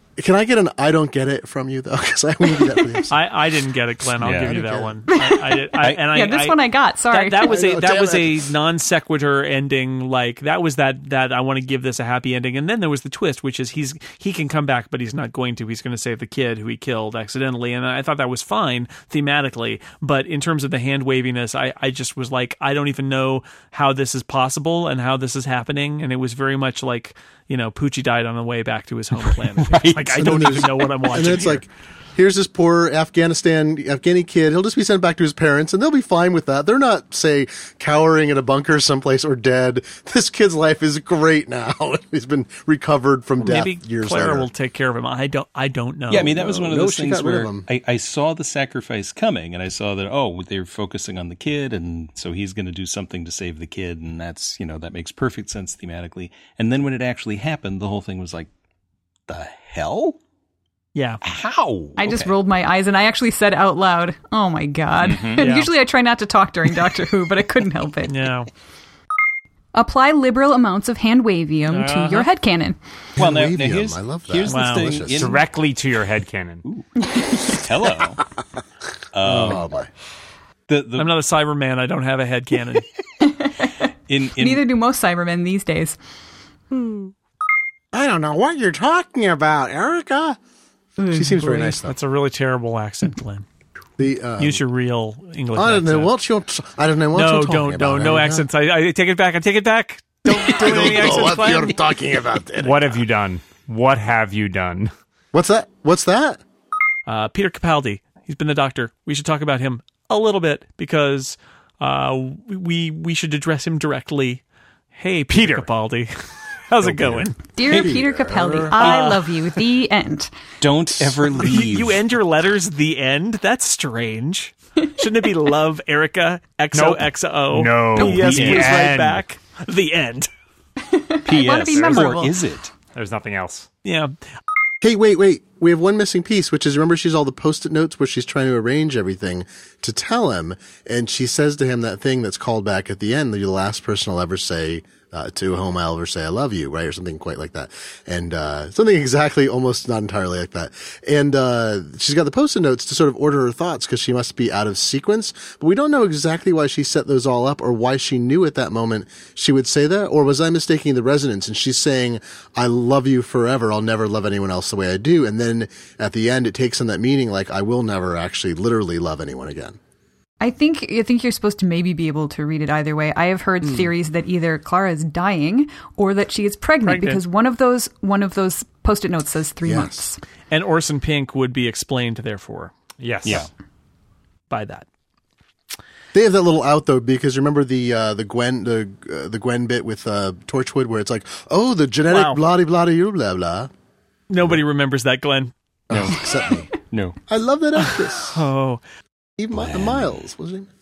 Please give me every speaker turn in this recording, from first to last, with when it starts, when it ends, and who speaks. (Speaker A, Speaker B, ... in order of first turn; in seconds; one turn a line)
Speaker A: 0.2-3.2
Speaker B: 3.1-31.6
Speaker C: 4.2-4.5
Speaker A: 4.3-5.0
Speaker D: 5.1-7.6
Speaker C: 5.8-6.1
Speaker A: 7.4-8.4
Speaker C: 29.6-30.6
Speaker A: 30.2-44.5
Speaker B: 43.4-46.3
Speaker C: 46.1-58.5
Speaker A: 46.1-47.7
Speaker C: 59.3-60.2
Speaker B: 61.0-61.2
Speaker C: 61.2-62.4
Speaker D: 62.0-68.3
Speaker C: 65.0-65.5
Speaker B: 65.4-65.7
Speaker B: 68.1-68.5
Speaker D: 69.7-72.8
Speaker B: 71.7-72.3
Speaker A: 73.2-75.4
Speaker C: 73.2-75.4
Speaker B: 74.5-75.0
Speaker E: 75.1-76.6
Speaker D: 77.1-77.5
Speaker C: 77.5-78.2
Speaker C: 79.1-79.7
Speaker A: 79.2-79.9
Speaker C: 80.7-81.1
Speaker B: 81.0-82.9
Speaker D: 83.2-86.0
Speaker C: 84.1-84.7
Speaker D: 86.7-87.1
Speaker A: 87.9-90.4
Speaker D: 91.0-91.8
Speaker A: 91.1-92.0
Speaker B: 91.8-93.5
Speaker A: 94.0-94.6
Speaker B: 94.4-96.1
Speaker A: 95.5-98.5
Speaker B: 97.1-101.8
Speaker A: 100.3-103.0
Speaker E: 102.6-104.9
Speaker A: 105.3-106.4
Speaker B: 107.1-114.4
Speaker B: 115.0-116.1
Speaker E: 115.3-115.7
Speaker B: 116.7-117.4
Speaker C: 117.1-118.0
Speaker D: 117.5-120.3
Speaker A: 117.7-118.9
Speaker B: 118.8-119.4
Speaker C: 120.6-122.0
Speaker B: 121.3-130.3
Speaker E: 126.7-129.2
Speaker C: 128.0-128.9
Speaker D: 130.8-132.3
Speaker C: 131.2-132.7
Speaker B: 131.9-132.2
Speaker E: 132.9-133.7
Speaker B: 133.8-134.1
Speaker A: 134.8-169.8
Speaker D: 170.4-180.2
Speaker A: 173.6-173.9
Speaker B: 176.8-177.2
Speaker A: 179.6-180.1
Speaker B: 180.5-182.7
Speaker E: 183.0-183.5
Speaker B: 184.5-184.9
Speaker A: 186.1-193.7
Speaker B: 192.1-192.4
Speaker B: 194.3-195.5
Speaker A: 195.9-198.4
Speaker C: 195.9-196.2
Speaker C: 196.9-197.2
Speaker B: 197.8-198.8
Speaker A: 199.4-200.7
Speaker C: 199.5-200.1